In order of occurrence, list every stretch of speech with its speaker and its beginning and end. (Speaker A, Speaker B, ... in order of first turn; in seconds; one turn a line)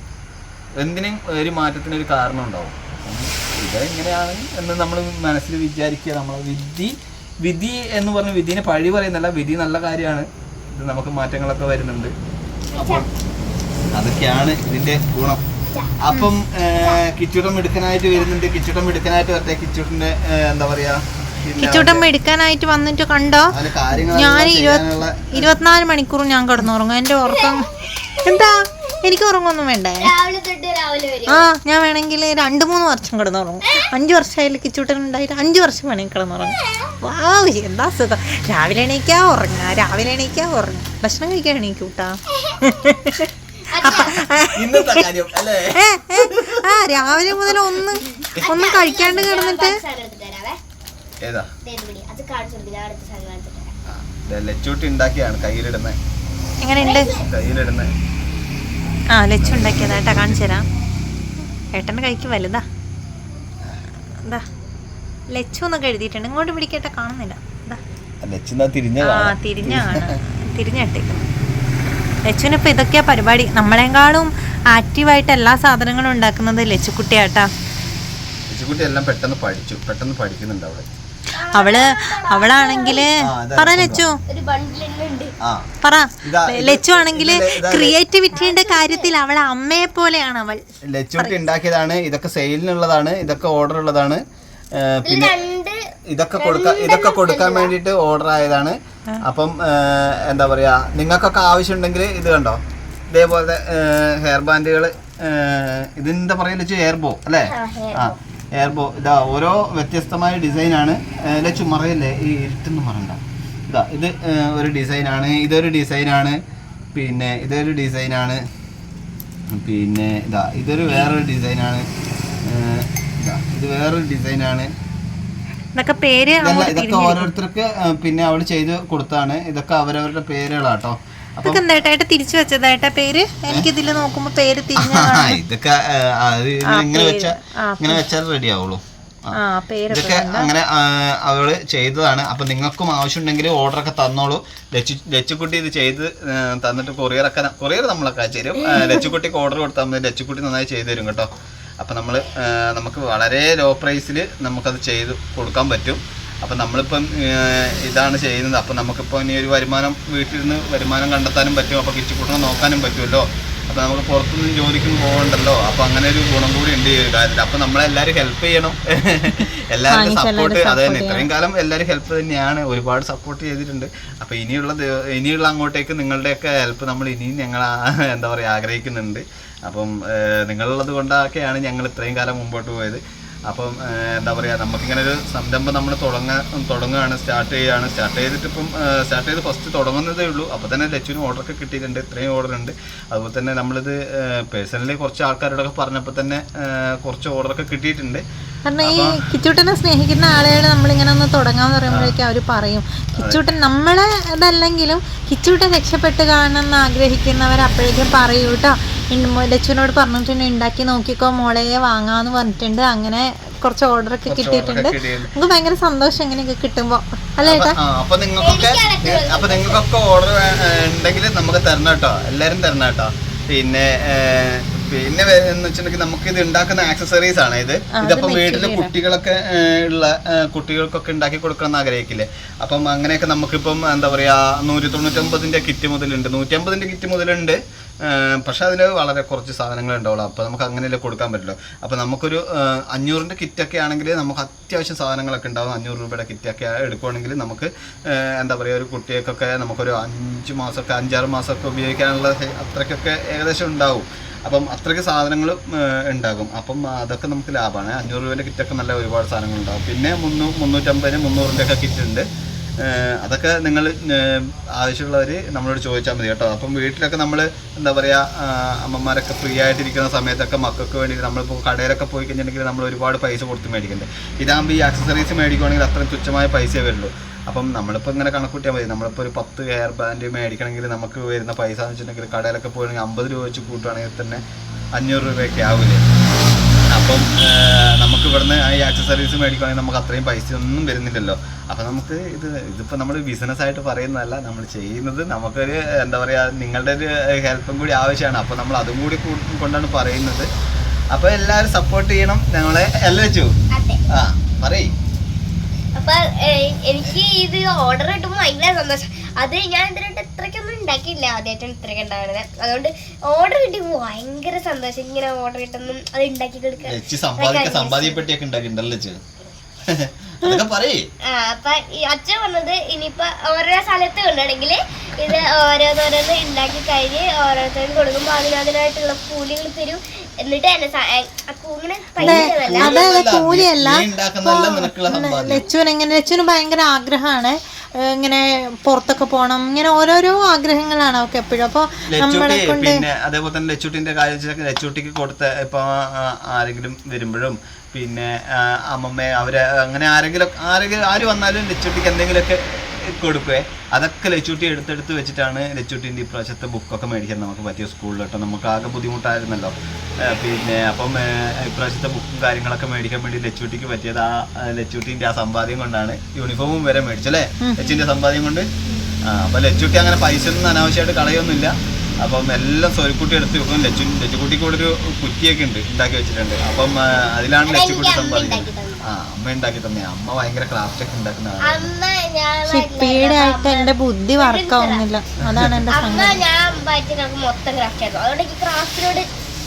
Speaker A: 0.8-12.1
Speaker B: 12.7-13.1
Speaker A: 12.7-13.1
Speaker A: 13.9-15.4
Speaker B: 15.7-16.0
Speaker A: 16.0-22.1
Speaker C: 21.6-30.1
Speaker A: 23.5-25.6
Speaker B: 27.2-27.7
Speaker B: 30.0-31.4
Speaker C: 31.3-42.1
Speaker B: 36.5-36.9
Speaker B: 42.3-42.7
Speaker C: 42.6-45.0
Speaker B: 43.7-44.2
Speaker A: 44.5-48.5
Speaker C: 45.8-49.8
Speaker B: 48.4-50.6
Speaker A: 51.2-51.5
Speaker B: 51.6-53.7
Speaker A: 53.9-56.0
Speaker C: 56.7-57.1
Speaker B: 56.8-57.3
Speaker A: 57.2-57.9
Speaker C: 59.2-60.6
Speaker A: 59.4-60.4
Speaker C: 61.7-62.6
Speaker C: 65.3-67.8
Speaker A: 68.2-70.2
Speaker C: 69.0-71.2
Speaker C: 72.3-77.5
Speaker A: 78.5-80.8
Speaker B: 81.3-83.1
Speaker C: 81.5-84.2
Speaker A: 83.2-84.0
Speaker B: 84.3-85.3
Speaker C: 85.8-90.6
Speaker A: 86.2-88.0
Speaker B: 88.3-89.1
Speaker A: 90.8-94.2
Speaker A: 94.7-95.3
Speaker B: 95.0-95.8
Speaker A: 96.1-102.6
Speaker B: 96.4-97.7
Speaker A: 103.1-116.4
Speaker B: 107.5-108.2
Speaker A: 116.9-118.4
Speaker A: 119.5-121.8
Speaker A: 122.4-124.7
Speaker C: 125.8-127.3
Speaker A: 126.4-131.7
Speaker C: 131.4-135.4
Speaker A: 134.8-139.4
Speaker C: 136.7-138.0
Speaker C: 139.3-140.5
Speaker A: 139.9-151.3
Speaker C: 148.7-149.1
Speaker A: 151.8-198.2
Speaker C: 169.9-171.2
Speaker C: 198.7-217.8
Speaker A: 198.8-199.1
Speaker A: 201.9-202.2
Speaker A: 214.3-215.3
Speaker A: 217.4-262.2
Speaker B: 218.4-219.8
Speaker C: 228.0-228.9
Speaker A: 262.8-284.4
Speaker A: 284.9-286.0
Speaker A: 286.9-300.5
Speaker A: 301.1-303.5
Speaker B: 303.7-304.0
Speaker A: 304.1-304.9
Speaker B: 306.0-318.2
Speaker A: 316.8-319.2
Speaker A: 319.9-321.1
Speaker B: 321.3-333.2
Speaker A: 332.2-335.6
Speaker C: 332.2-337.6
Speaker C: 338.2-343.0
Speaker A: 342.1-368.7
Speaker C: 367.7-368.0
Speaker A: 369.3-381.9
Speaker B: 377.7-379.0
Speaker B: 381.6-385.0
Speaker C: 382.7-386.4
Speaker A: 385.5-385.8
Speaker B: 385.9-389.3